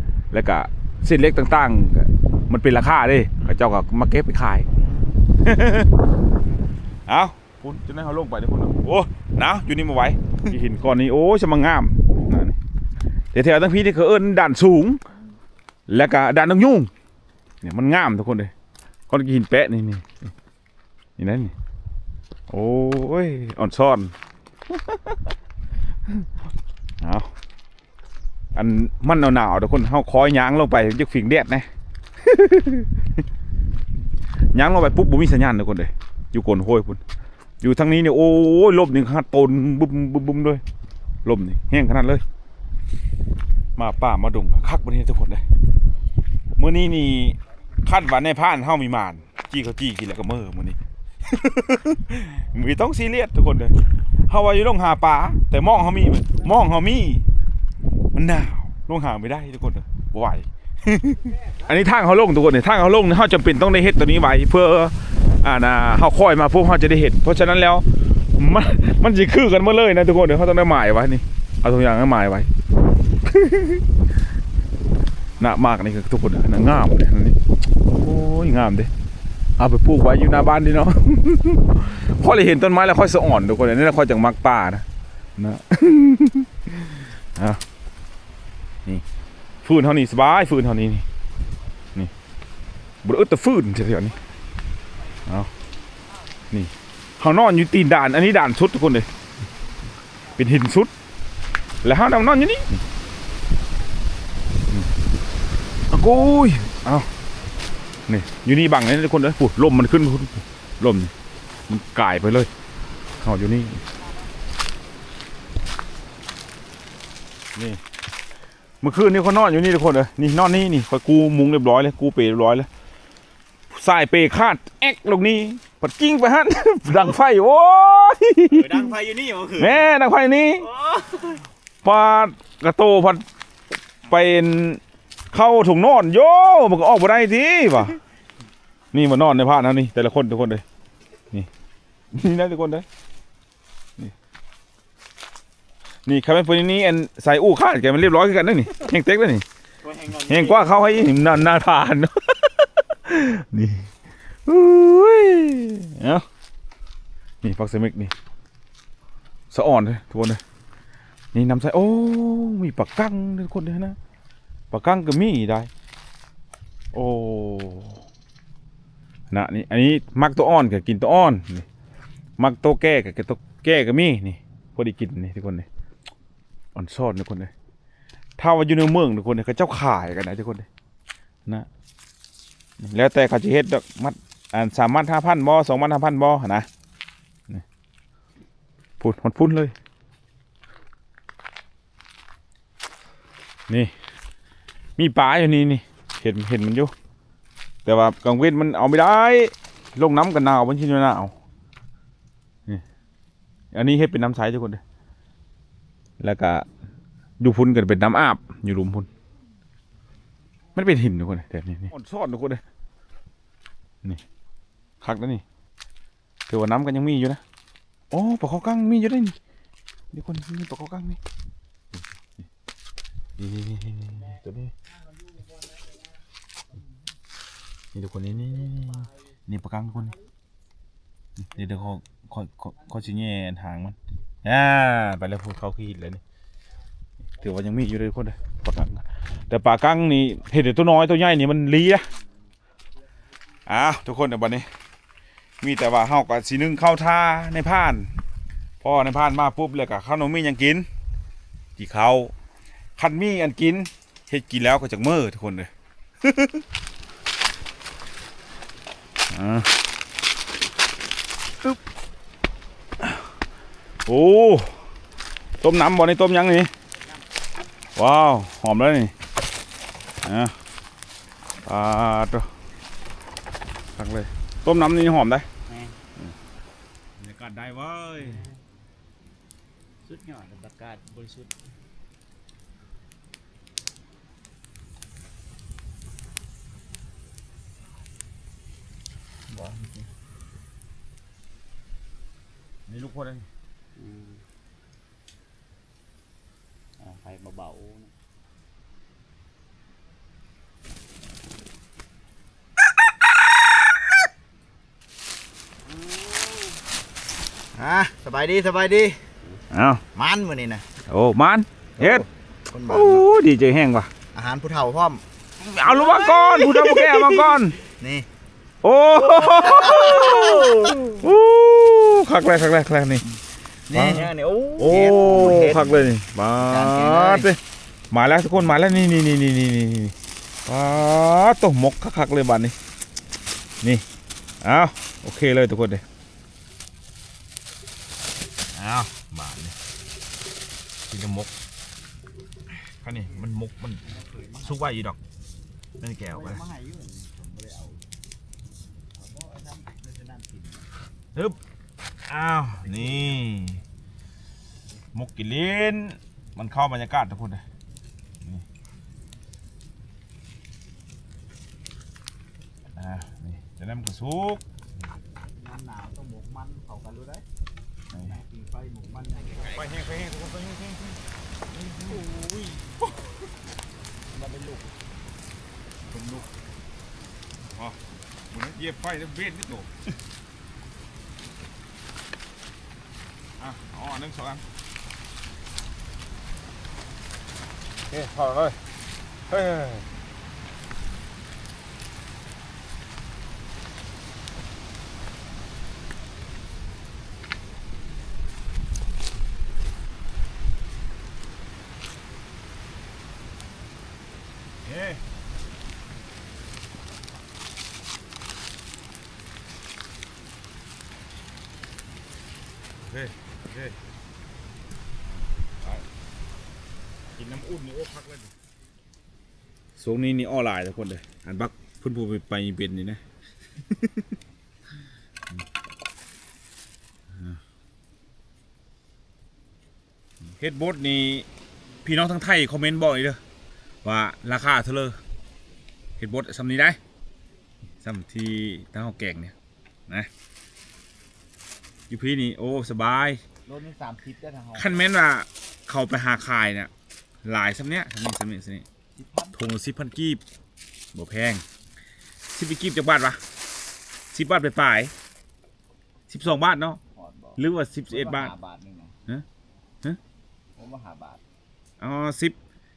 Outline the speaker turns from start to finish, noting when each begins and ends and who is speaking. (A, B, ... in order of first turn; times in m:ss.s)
0:00.3-0:04.7 A
0:04.8-0:05.2 B
0:05.4-0:05.9 A
0:07.1-0:12.6 A
0:13.3-0:15.0 A
0:15.9-0:16.9 A
0:17.6-0:18.5 A
0:19.1-0:20.2 A
0:21.2-0:21.5 A
0:22.5-0:24.1 A
0:27.0-0:27.3 A
0:28.5-0:31.7 A
0:32.2-0:33.0 A
0:34.5-0:37.0 A
0:37.6-0:40.6 A
0:41.2-0:42.2 A
0:43.8-0:45.4 A
0:46.6-0:53.8 A
0:54.3-0:57.3 A
0:58.1-1:12.5 A
1:13.2-1:13.8 A
1:15.4-1:17.4 A
1:18.0-1:18.9 A
1:19.6-1:24.8 A
1:25.4-1:27.6 A
1:29.6-1:31.0 A
1:33.0-1:34.2 A
1:36.5-1:39.1 A
1:40.4-1:40.9 A
1:41.8-1:42.8 A
1:45.9-1:47.1 A
1:48.1-1:51.1 A
1:51.7-1:52.5 A
1:53.2-1:53.8 A
1:57.6-1:57.8 A
1:58.8-2:02.7 A
2:03.7-2:08.9 A
2:08.6-2:09.8 B
2:09.6-2:10.7 A
2:10.8-2:11.4 B
2:11.8-2:13.2 A
2:14.0-2:14.8 A
2:15.3-2:18.0 A
2:18.9-2:20.6 A
2:22.1-2:22.8 A
2:26.0-2:29.4 A
2:30.0-2:30.8 B
2:30.1-2:33.9 A
2:34.4-2:36.2 A
2:37.4-2:38.1 A
2:39.5-2:40.4 A
2:41.3-2:44.0 A
2:44.7-2:45.7 A
2:46.9-2:48.0 A
2:49.3-2:51.6 A
2:52.4-2:55.7 A
2:56.7-2:57.5 A
2:58.4-3:00.7 A
3:02.8-3:06.7 A
3:09.0-3:09.7 A
3:15.0-3:16.9 A
3:17.8-3:21.3 A
3:23.7-3:24.8 A
3:26.2-3:26.6 A
3:27.4-3:29.1 A
3:30.7-3:32.6 A
3:35.0-3:35.4 A
3:36.5-3:37.4 A
3:38.1-3:39.4 A
3:40.1-3:41.2 A
3:43.4-3:44.7 A
3:47.9-3:50.2 A
3:51.5-3:56.2 A
3:57.4-4:02.0 A
4:03.7-4:04.7 A
4:05.6-4:08.1 A
4:08.8-4:10.9 A
4:11.8-4:12.3 A
4:13.0-4:15.7 A
4:16.2-4:16.6 A
4:19.3-4:19.7 A
4:24.0-4:24.8 A
4:25.6-4:26.7 A
4:28.0-4:29.1 A
4:30.2-4:30.5 A
4:31.6-4:32.5 A
4:34.0-4:35.5 A
4:37.2-4:38.4 A
4:40.0-4:41.5 B
4:49.5-4:50.0 C
4:52.9-4:53.5 A
4:54.0-4:54.4 B
4:57.0-4:58.1 B
5:06.2-5:06.4 B
5:07.7-5:09.2 C
5:09.7-5:10.0 A
5:10.1-5:10.8 C
5:11.0-5:12.3 A
5:12.0-5:13.3 C
5:12.9-5:14.1 A
5:14.3-5:15.2 C
5:15.6-5:17.8 A
5:15.9-5:18.3 C
5:18.8-5:23.2 A
5:19.2-5:21.1 C
5:23.9-5:27.5 C
5:23.9-5:27.6 A
5:28.1-5:30.1 A
5:30.6-5:32.7 A
5:34.6-5:36.0 A
5:38.7-5:39.7 A
5:41.1-5:41.5 A
5:43.0-5:44.0 A
5:43.1-5:43.4 C
5:44.0-5:44.8 C
5:44.6-5:45.2 A
5:46.0-5:46.6 A
5:46.3-5:48.0 C
5:49.1-5:50.9 C
5:52.3-5:53.8 A
5:52.9-5:53.4 C
5:55.1-5:57.6 A
6:03.0-6:04.6 A
6:05.5-6:07.4 C
6:08.1-6:08.4 A
6:08.2-6:09.9 C
6:09.6-6:12.3 A
6:14.3-6:14.9 C
6:16.1-6:16.5 A
6:17.7-6:18.0 A
6:18.5-6:19.9 A
6:23.6-6:24.6 A
6:28.1-6:28.8 A
6:29.5-6:30.0 A
6:44.8-6:45.2 A
6:53.0-6:54.0 A
6:55.3-6:56.0 A
6:57.4-6:58.5 A
7:00.0-7:03.2 A
7:03.9-7:04.2 A
7:07.3-7:07.6 A
7:10.4-7:11.5 A
7:12.0-7:13.4 A
7:14.0-7:15.2 A
7:16.2-7:17.0 A
7:18.0-7:19.5 A
7:22.1-7:23.4 A
7:23.6-7:25.0 C
7:24.8-7:26.9 A
7:27.4-7:28.8 A
7:29.2-7:29.6 C
7:29.5-7:30.4 A
7:31.1-7:31.6 A
7:32.5-7:33.4 A
7:34.3-7:35.1 A
7:36.3-7:37.0 A
7:37.1-7:39.2 C
7:37.6-7:38.5 A
7:40.8-7:41.4 C
7:42.0-7:42.6 A